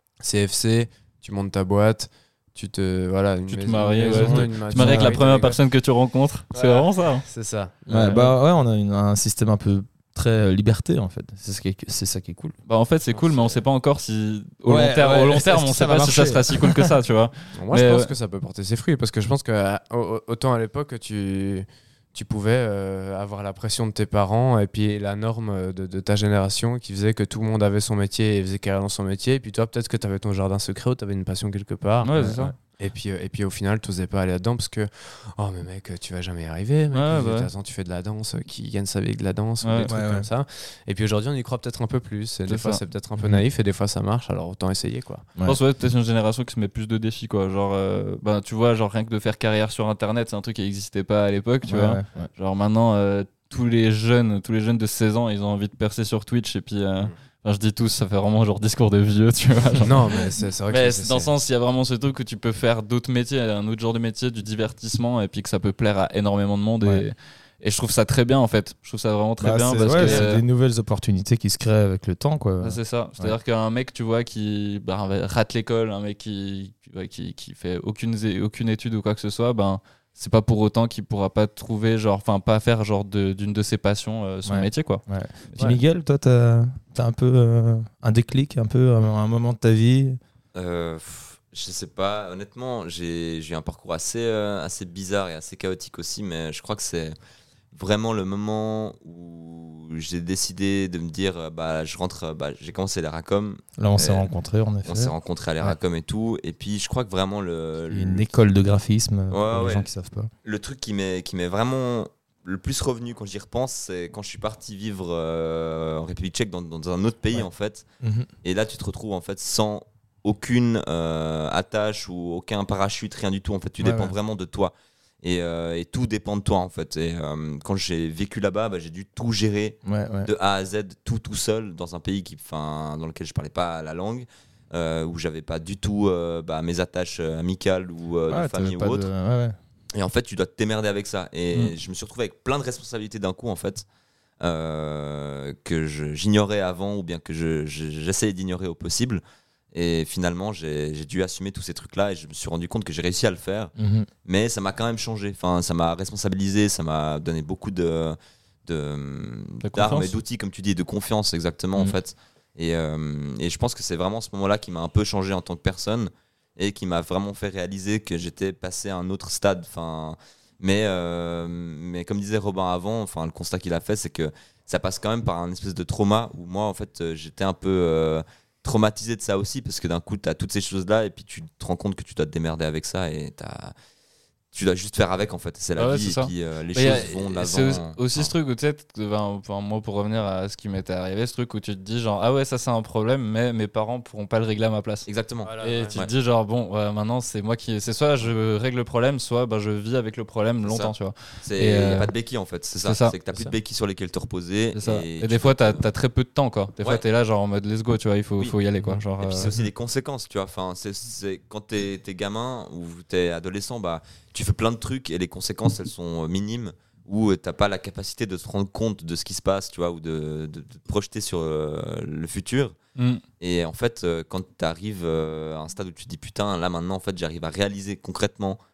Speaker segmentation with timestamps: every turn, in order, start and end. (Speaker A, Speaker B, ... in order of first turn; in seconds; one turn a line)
Speaker A: 0.2-5.6
Speaker B: 3.5-7.2
Speaker C: 4.1-5.2
Speaker A: 6.5-8.3
Speaker C: 7.9-12.5
Speaker B: 12.7-18.1
Speaker A: 13.1-13.6
Speaker C: 14.7-16.9
Speaker A: 17.6-45.3
Speaker B: 32.0-32.5
Speaker C: 32.2-32.5
Speaker B: 36.9-37.5
Speaker B: 39.6-39.9
Speaker C: 39.9-40.3
Speaker B: 42.5-42.8
Speaker B: 45.4-70.4
Speaker C: 51.6-52.3
Speaker A: 59.8-61.3
Speaker C: 69.4-73.4
Speaker B: 72.6-85.8
Speaker C: 84.4-90.2
Speaker D: 90.5-97.2
Speaker D: 97.7-104.2
Speaker C: 103.8-105.8
Speaker D: 104.8-108.2
Speaker C: 107.9-110.3
Speaker D: 109.3-109.9
Speaker D: 110.4-117.8
Speaker C: 118.0-118.3
Speaker D: 118.4-139.1
Speaker C: 123.8-124.1
Speaker C: 129.8-130.3
Speaker C: 138.3-139.6
Speaker D: 139.9-143.8
Speaker D: 144.4-149.2
Speaker D: 149.7-153.7
Speaker C: 153.8-154.1
Speaker D: 154.2-183.7
Speaker B: 159.6-160.2
Speaker D: 184.5-188.3
Speaker B: 185.8-195.1
Speaker D: 195.1-196.1
Speaker A: 195.4-195.9
Speaker B: 195.6-202.1
Speaker D: 200.6-200.9
Speaker D: 201.4-205.8
Speaker B: 202.8-203.5
Speaker B: 204.7-209.5
Speaker D: 209.2-222.8
Speaker D: 223.4-228.6